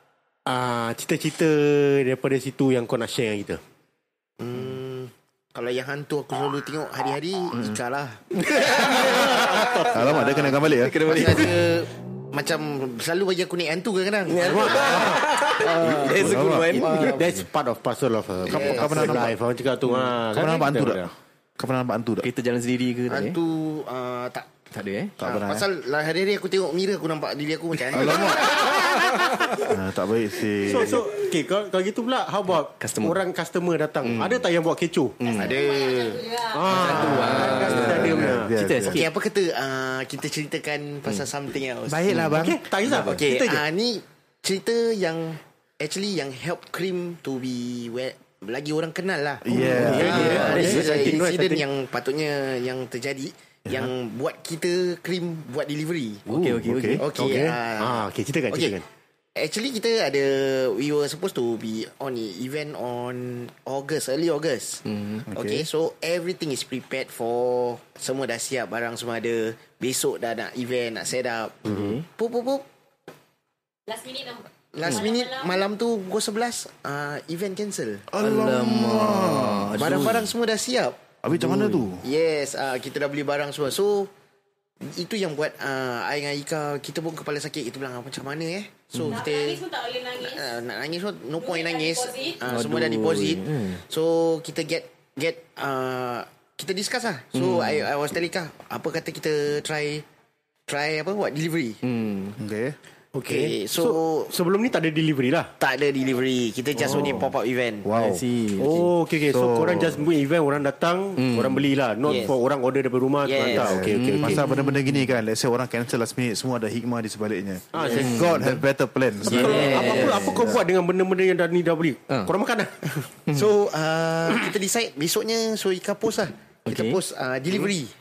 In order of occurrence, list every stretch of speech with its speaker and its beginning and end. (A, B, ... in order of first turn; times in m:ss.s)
0:00.4-0:03.6 A
0:04.4-0:08.7 B
0:08.6-0:09.3 C
0:08.6-0:10.5 A
0:09.2-0:10.2 B
0:09.9-0:11.5 D
0:10.7-0:11.6 C
0:11.0-0:17.4 B
0:14.3-0:17.2 C
0:14.3-0:16.3 A
0:16.1-0:16.8 D
0:16.9-0:21.1 A
0:18.5-0:19.3 D
0:18.5-0:19.2 B
0:20.0-0:22.3 D
0:22.2-0:23.4 C
0:23.1-0:24.5 B
0:24.7-0:25.2 C
0:25.2-0:25.7 D
0:25.2-0:28.9 B
0:27.9-0:28.7 D
0:29.5-0:31.0 D
0:30.6-0:35.3 A
0:32.7-0:33.2 C
0:34.0-0:34.4 C
0:35.2-0:35.5 C
0:35.3-0:36.2 B
0:35.3-0:37.0 E
0:36.5-0:38.5 A
0:36.7-0:39.1 C
0:37.4-0:37.7 B
0:37.4-0:39.0 D
0:38.8-0:42.4 B
0:41.9-0:42.6 D
0:42.2-0:43.6 A
0:43.0-0:56.2 B
0:49.4-0:51.1 D
0:49.5-0:51.6 A
0:49.6-0:51.0 C
0:53.6-0:53.9 D
0:56.3-0:57.1 C
0:56.4-0:57.0 D
0:57.0-0:58.7 B
0:57.1-0:58.8 A
0:59.3-1:12.6 B
1:04.9-1:05.2 C
1:05.3-1:05.7 D
1:11.7-1:12.0 C
1:13.9-1:15.6 E
1:14.7-1:18.1 B
1:18.1-1:19.9 D
1:18.2-1:20.3 C
1:19.8-1:21.0 B
1:21.2-1:22.0 D
1:21.4-1:21.8 C
1:22.0-1:24.1 B
1:24.8-1:29.6 B
1:29.1-1:30.6 E
1:30.2-1:40.0 B
1:31.4-1:32.4 E
1:32.5-1:33.8 C
1:37.3-1:37.9 C
1:40.7-1:41.8 B
1:41.8-1:42.4 C
1:42.4-1:42.8 D
1:43.1-1:45.5 A
1:43.2-1:44.3 B
1:45.6-1:47.9 B
1:46.7-1:47.2 A
1:47.0-1:47.2 D
1:47.8-1:48.2 D
1:47.9-1:48.9 C
1:48.6-1:54.4 A
1:49.3-1:50.0 D
1:51.2-1:51.7 C
1:52.0-1:52.4 B
1:53.2-1:53.8 B
1:53.5-2:00.6 D
1:53.8-1:55.0 C
1:57.7-1:58.4 A
1:57.8-1:58.0 B
1:57.9-1:58.6 C
1:59.2-2:00.5 C
1:59.2-2:02.9 A
2:03.3-2:07.9 B
2:06.7-2:07.0 C